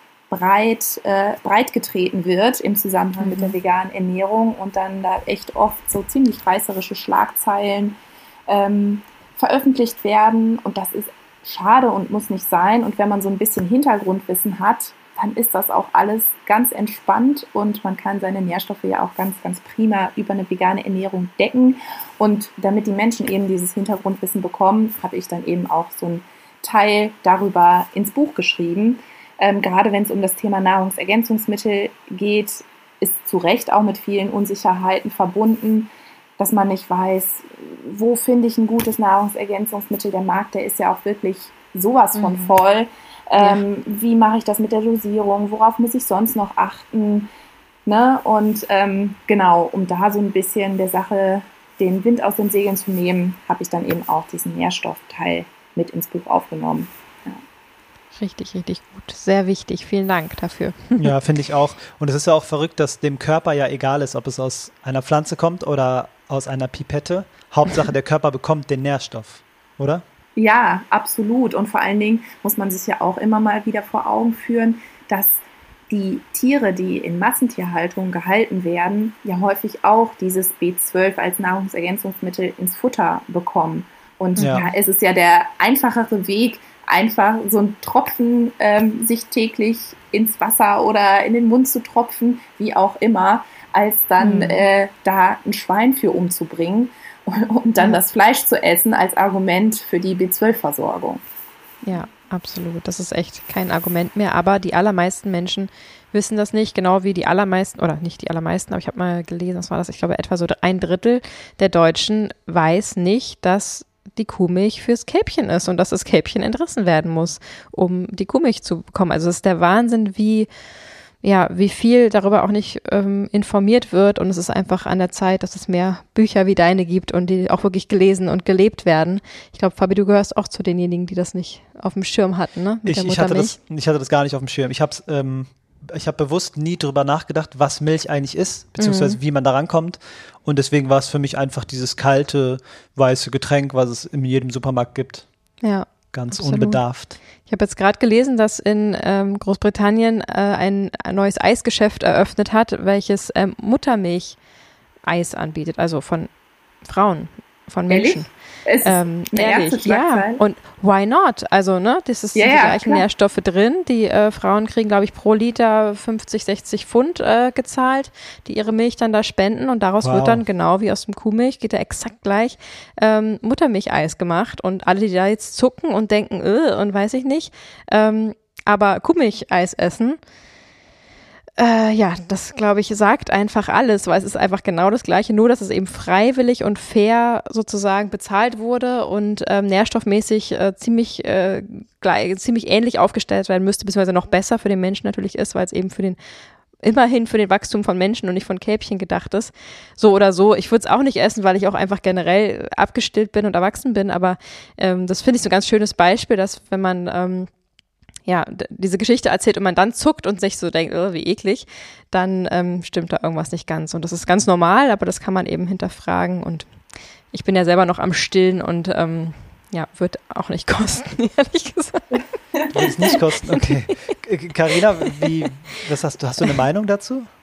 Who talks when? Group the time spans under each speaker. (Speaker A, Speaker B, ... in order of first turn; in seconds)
Speaker A: 0.3-47.3, 47.9-57.4, 70.3-101.2, 157.9-160.4, 162.3-163.0
Speaker B: 3.2-3.5, 42.1-42.5, 43.4-43.6, 58.1-61.1, 84.4-84.7, 94.2-94.6, 101.8-120.5, 121.2-133.6, 138.8-139.2, 145.6-146.8, 147.4-154.4, 155.0-156.3, 156.8-158.3, 158.8-180.2, 181.6-196.2, 196.8-207.5, 208.2-216.7, 217.3-222.3, 223.1-223.9, 225.1-225.3
Speaker C: 61.0-70.0, 84.4-84.6, 132.8-145.3, 146.1-147.2, 170.0-170.4, 222.7-227.3